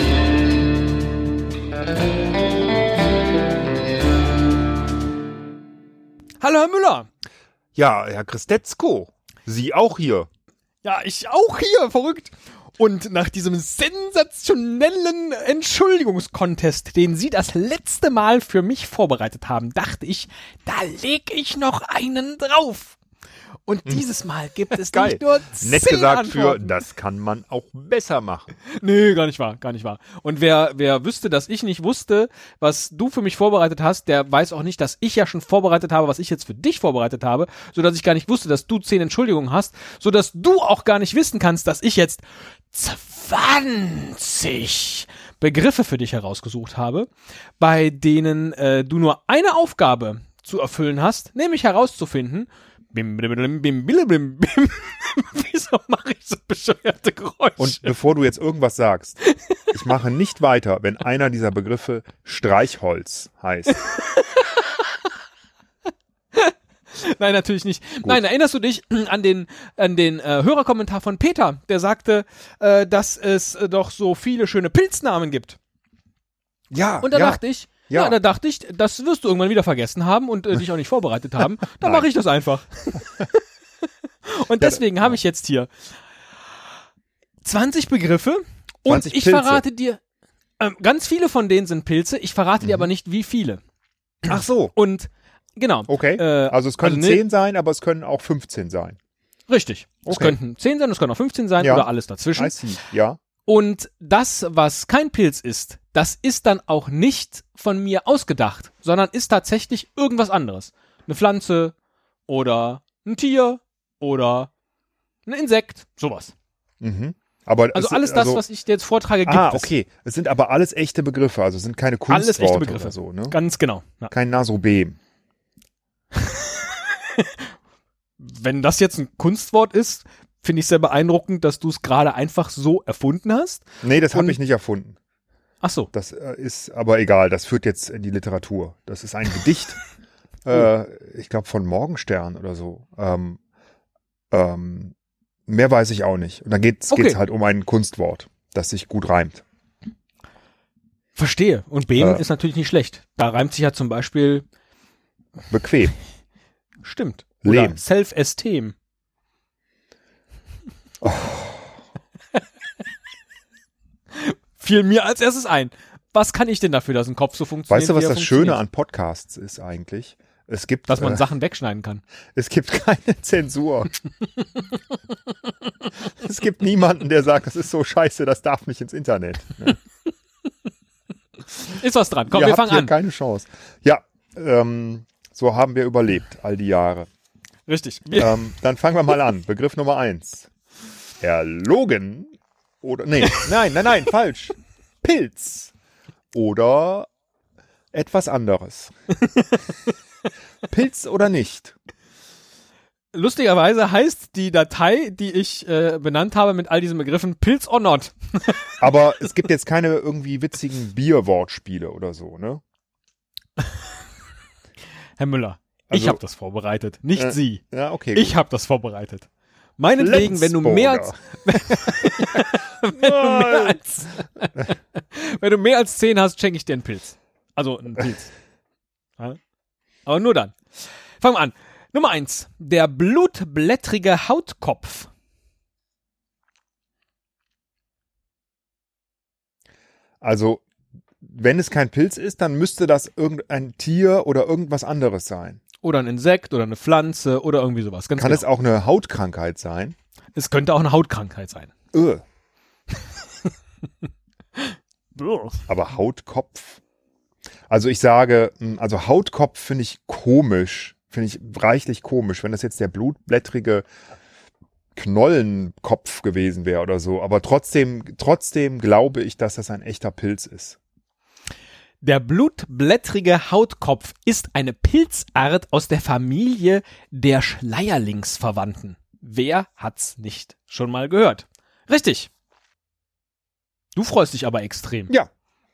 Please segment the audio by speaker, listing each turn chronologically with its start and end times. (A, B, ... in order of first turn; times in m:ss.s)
0:06.4-0:07.1 A
0:07.8-0:10.3 B
0:10.8-0:23.0 A
0:23.7-0:26.7 A
0:24.7-0:28.5 B
0:28.8-0:47.1 A
0:47.6-0:57.9 A
0:57.6-0:59.2 B
0:59.3-0:59.7 A
0:59.7-1:03.8 B
1:04.0-1:05.0 A
1:06.3-1:15.6 A
1:16.7-1:18.2 B
1:17.0-1:23.4 A
1:21.8-1:22.1 B
1:24.3-1:25.7 A
1:24.6-1:25.2 B
1:27.4-1:30.0 A
1:28.9-1:29.6 B
1:30.6-1:33.6 A
1:32.6-1:32.9 B
1:34.2-1:34.7 B
1:34.3-1:37.2 A
1:35.9-1:39.0 B
1:39.5-1:42.6 A
1:40.1-1:40.4 B
1:41.6-1:43.2 B
1:43.5-1:51.7 A
1:52.3-1:54.5 A
1:55.3-1:56.3 A
1:56.8-1:58.4 B
1:57.7-1:59.7 A
1:59.2-2:03.4 B
2:02.1-2:04.1 A
2:04.1-2:05.0 B
2:06.2-2:07.5 A
2:08.2-2:14.4 A
2:13.8-2:15.0 B
2:15.6-2:15.9 A
2:15.9-2:19.8 B
2:20.4-2:23.4 B
2:24.3-2:25.0 B
2:25.5-2:29.4 B
2:26.9-2:27.2 A
2:31.2-2:34.4 A
2:32.0-2:32.2 B
2:35.5-2:35.9 B
2:36.8-2:38.8 A
2:37.4-2:37.8 B
2:41.0-2:41.6 B
2:44.1-2:48.6 A
2:47.7-2:51.2 B
2:50.9-2:52.0 A
2:52.4-2:54.0 B
2:56.0-2:59.8 B
3:01.5-3:02.9 A
3:02.3-3:07.1 B
3:07.7-3:08.4 A
3:08.2-3:10.5 B
3:11.2-3:15.7 B
3:16.3-3:17.1 B
3:17.9-3:18.9 B
3:20.7-3:21.8 B
3:23.1-3:28.7 A
3:28.8-3:32.6 B
3:35.2-3:37.6 A
3:35.9-3:36.2 B
3:37.2-3:38.3 B
3:38.1-3:39.3 A
3:39.8-3:48.3 A
3:40.0-3:43.8 B
3:50.1-3:55.1 A
4:00.2-4:00.6 B
4:01.2-4:05.6 B
4:05.8-4:08.5 A
4:08.2-4:10.0 B
4:10.4-4:11.7 A
4:11.9-4:12.2 B
4:14.6-4:15.6 A
4:15.7-4:16.8 B
4:17.7-4:23.9 B
4:25.0-4:30.8 B
4:32.0-4:42.3 A
4:44.0-4:45.1 A